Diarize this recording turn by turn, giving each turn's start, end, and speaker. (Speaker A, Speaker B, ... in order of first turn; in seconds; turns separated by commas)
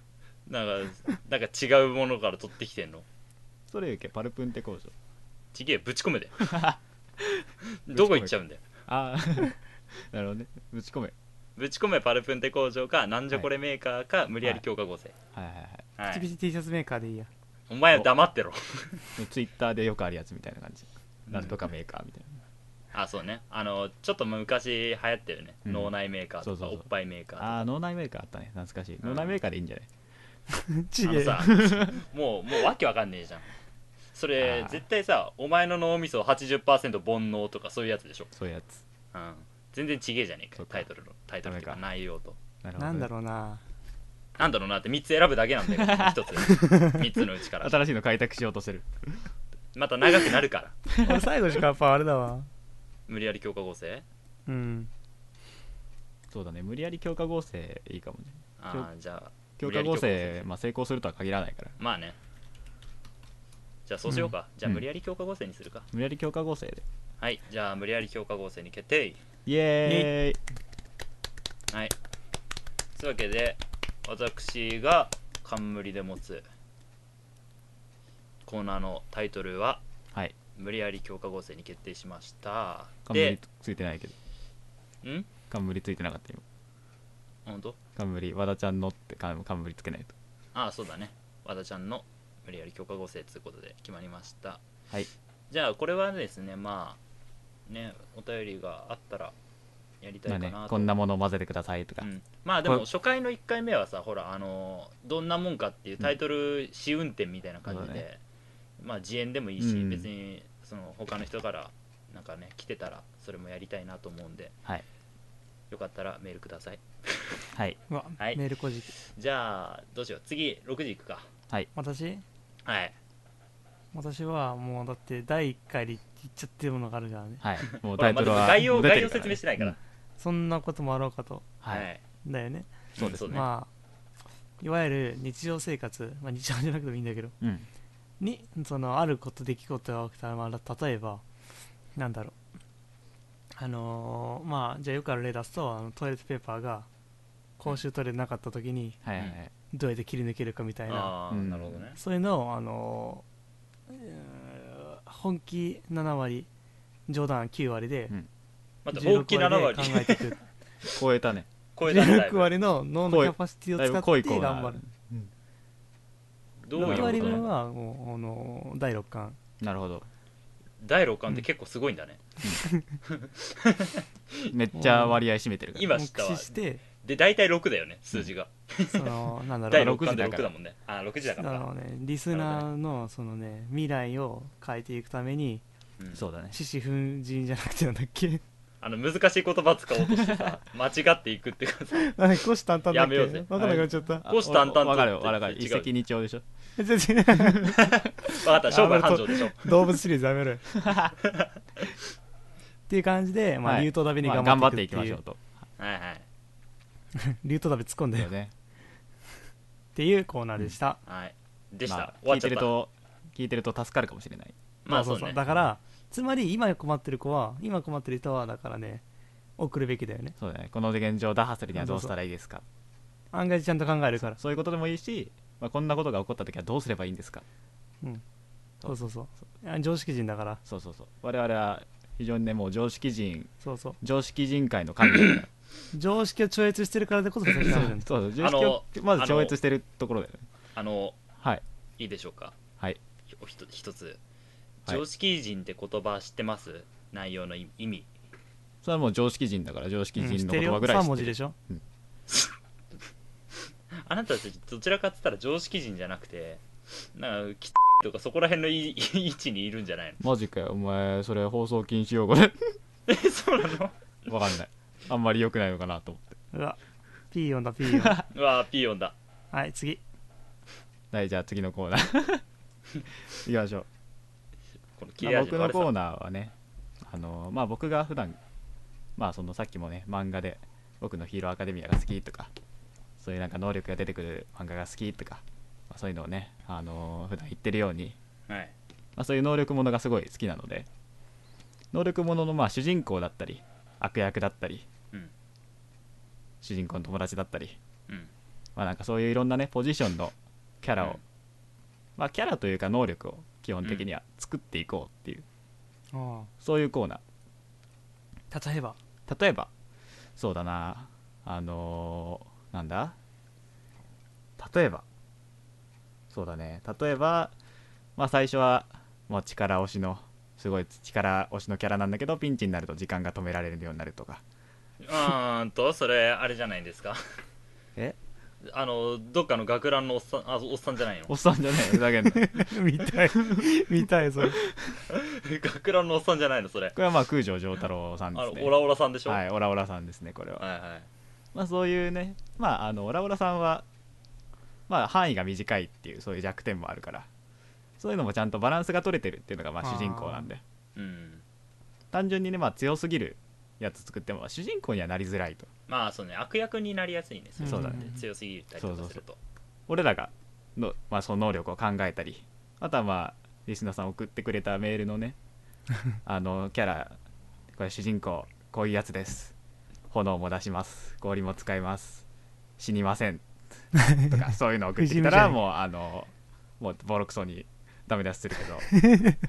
Speaker A: 0.5-3.0, Speaker B: 3.7-4.9, Speaker A: 5.5-6.5, Speaker B: 6.4-8.3, Speaker A: 7.9-8.6, Speaker B: 8.9-11.1, Speaker A: 11.6-15.1, Speaker B: 15.3-15.8, Speaker A: 16.0-16.3, Speaker C: 16.1-17.3, Speaker A: 17.7-19.1, Speaker B: 19.2-22.4, Speaker A: 21.3-21.7, Speaker A: 22.9-27.6, Speaker B: 25.6-26.9, Speaker B: 27.4-29.9, Speaker A: 29.0-29.4, Speaker C: 30.5-31.4, Speaker A: 31.0-33.5, Speaker B: 31.4-31.9, Speaker A: 34.1-38.3, Speaker B: 34.4-34.8, Speaker B: 38.3-38.8, Speaker A: 39.1-42.4, Speaker B: 40.6-40.9, Speaker B: 41.4-41.8, Speaker B: 42.6-43.1, Speaker C: 42.8-43.6, Speaker A: 44.4-47.8, Speaker B: 45.7-46.2, Speaker C: 46.5-47.0, Speaker B: 47.6-49.3, Speaker A: 49.7-50.8, Speaker B: 50.9-51.2, Speaker C: 51.0-52.5, Speaker A: 53.1-54.0, Speaker C: 54.5-54.9, Speaker B: 56.3-58.9, Speaker A: 58.6-60.5, Speaker B: 59.6-61.8, Speaker A: 61.8-62.2, Speaker A: 63.9-65.9, Speaker B: 65.9-66.8, Speaker A: 67.2-69.2, Speaker B: 69.5-70.4, Speaker C: 69.8-70.1, Speaker A: 72.9-76.4, Speaker A: 78.5-79.8, Speaker A: 80.5-83.4, Speaker B: 83.0-84.1, Speaker A: 85.0-85.3, Speaker B: 85.5-86.4, Speaker A: 87.5-87.8, Speaker B: 88.0-90.1, Speaker A: 90.5-94.6, Speaker A: 95.5-97.0, Speaker A: 97.7-99.3, Speaker A: 100.0-100.9, Speaker B: 100.3-102.1, Speaker A: 102.0-108.2, Speaker B: 107.7-108.0, Speaker A: 108.8-114.5, Speaker B: 109.6-110.1, Speaker A: 115.7-117.4, Speaker B: 117.5-117.8, Speaker C: 117.9-118.9, Speaker A: 118.9-121.3, Speaker C: 121.7-122.2, Speaker A: 122.6-122.9, Speaker C: 123.9-127.5, Speaker B: 127.4-129.8, Speaker A: 127.7-129.8, Speaker C: 130.2-131.5, Speaker B: 131.6-131.9, Speaker A: 131.7-132.0, Speaker C: 132.2-133.7, Speaker A: 132.9-133.5, Speaker B: 133.0-133.4, Speaker C: 134.6-137.3, Speaker B: 137.4-137.7, Speaker C: 138.2-141.2, Speaker C: 141.9-142.3, Speaker C: 143.6-146.9, Speaker C: 147.6-149.0, Speaker B: 149.0-149.5, Speaker C: 149.7-151.1, Speaker A: 150.9-152.0, Speaker B: 151.3-151.8, Speaker C: 152.0-153.2, Speaker C: 153.9-156.5, Speaker C: 157.1-158.1, Speaker A: 158.8-160.3, Speaker C: 158.9-160.4, Speaker B: 160.8-161.5, Speaker A: 161.8-162.5, Speaker C: 161.8-164.8, Speaker B: 163.1-165.3, Speaker A: 166.6-167.5, Speaker C: 166.8-169.4, Speaker B: 166.8-167.5, Speaker B: 169.6-170.1, Speaker A: 170.8-172.2, Speaker A: 173.1-174.5, Speaker B: 174.5-175.9, Speaker C: 174.7-175.2, Speaker A: 175.7-181.7, Speaker C: 175.9-176.8, Speaker C: 178.9-179.9, Speaker B: 179.7-180.5, Speaker C: 181.3-185.6, Speaker A: 182.3-182.7, Speaker A: 186.0-186.2, Speaker B: 186.1-186.6, Speaker C: 186.5-188.4, Speaker A: 188.8-192.2, Speaker B: 190.2-190.5, Speaker C: 192.0-194.2, Speaker A: 192.9-193.5, Speaker B: 193.5-196.4, Speaker A: 194.3-195.9, Speaker C: 196.8-197.8, Speaker B: 197.4-197.7, Speaker A: 197.7-199.9, Speaker C: 198.7-200.7, Speaker B: 200.8-201.1, Speaker A: 201.2-201.9, Speaker C: 202.9-205.2, Speaker B: 203.6-205.4, Speaker A: 205.8-206.2, Speaker C: 207.2-208.3, Speaker B: 208.1-208.5, Speaker C: 209.9-211.0, Speaker A: 211.1-212.7, Speaker B: 211.9-214.6, Speaker A: 214.8-215.4, Speaker C: 214.9-219.0, Speaker C: 219.6-220.3, Speaker B: 220.4-222.6, Speaker C: 221.7-222.1, Speaker C: 223.3-224.4, Speaker B: 224.3-227.4, Speaker C: 228.8-230.6, Speaker B: 230.6-235.5, Speaker C: 233.6-234.0, Speaker C: 235.9-238.1, Speaker B: 237.7-240.4, Speaker A: 238.4-239.5, Speaker A: 240.7-241.2, Speaker A: 242.0-242.6, Speaker A: 243.3-244.2, Speaker A: 244.8-248.1, Speaker B: 248.8-251.8, Speaker C: 250.2-251.5, Speaker A: 253.9-256.6, Speaker A: 257.1-260.2, Speaker B: 260.2-262.8, Speaker A: 263.1-264.4, Speaker B: 264.3-266.4, Speaker C: 266.5-266.8, Speaker C: 267.3-268.2, Speaker B: 267.9-268.2, Speaker A: 268.3-269.1, Speaker C: 269.5-270.0, Speaker B: 271.1-272.4, Speaker B: 273.3-273.9, Speaker A: 275.0-275.9, Speaker B: 275.2-278.4, Speaker B: 279.1-282.5, Speaker B: 283.2-288.2, Speaker A: 288.5-288.7, Speaker B: 289.1-290.9, Speaker B: 291.9-294.9, Speaker B: 296.6-297.8, Speaker B: 298.8-301.2, Speaker B: 302.2-305.4, Speaker C: 306.1-306.5, Speaker B: 306.6-307.2, Speaker C: 308.5-309.0, Speaker B: 309.3-309.7, Speaker B: 310.4-313.1, Speaker B: 314.6-315.0, Speaker B: 316.3-317.5, Speaker B: 318.2-324.4, Speaker A: 325.0-327.2, Speaker A: 328.6-331.3, Speaker B: 331.3-333.7, Speaker C: 332.2-334.6, Speaker B: 334.4-334.7, Speaker A: 335.1-337.0, Speaker B: 336.9-340.6, Speaker A: 338.3-339.4, Speaker A: 340.6-341.1, Speaker B: 341.5-343.9, Speaker B: 344.9-347.3, Speaker B: 348.0-350.6, Speaker C: 349.8-350.5, Speaker A: 350.9-351.4, Speaker B: 352.1-355.7, Speaker A: 355.9-359.4, Speaker C: 357.6-358.2, Speaker B: 357.6-358.1, Speaker B: 358.8-359.2, Speaker B: 359.9-365.4, Speaker B: 366.2-367.2, Speaker B: 367.7-369.5, Speaker B: 370.1-372.2, Speaker B: 372.8-373.4, Speaker C: 373.9-374.4, Speaker B: 374.1-379.0, Speaker C: 375.0-375.6, Speaker C: 378.9-379.4